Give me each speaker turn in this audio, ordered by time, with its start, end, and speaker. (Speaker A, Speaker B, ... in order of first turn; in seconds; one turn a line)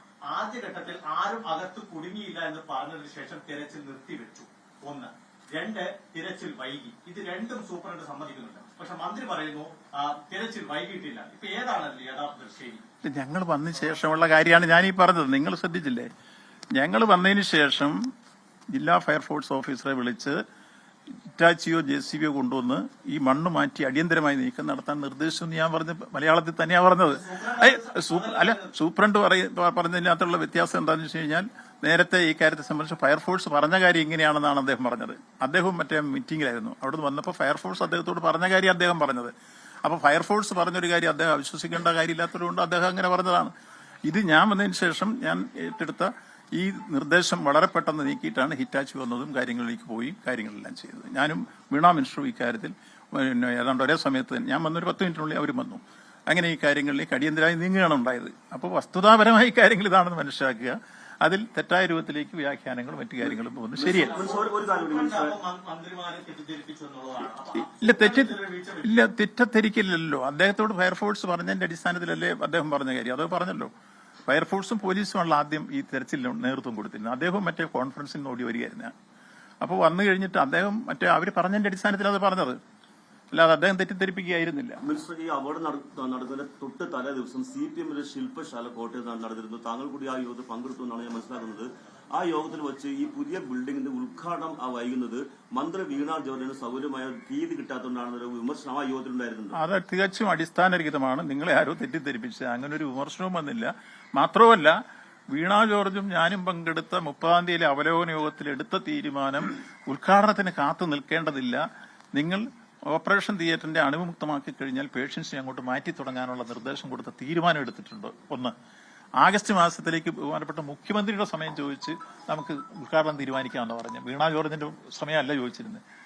Speaker A: 0.3-12.8
Speaker B: 13.0-16.1
Speaker B: 16.7-18.0
Speaker B: 18.7-20.4
Speaker B: 21.1-39.3
Speaker A: 27.1-28.7
Speaker B: 39.8-43.5
Speaker B: 44.0-64.2
Speaker C: 63.2-65.3
Speaker A: 63.9-69.0
Speaker B: 67.6-73.7
Speaker B: 74.3-78.9
Speaker B: 79.6-82.6
Speaker B: 83.3-84.8
Speaker C: 84.8-99.5
Speaker B: 99.5-104.8
Speaker B: 105.3-111.6
Speaker B: 112.1-118.5
Speaker B: 119.2-125.8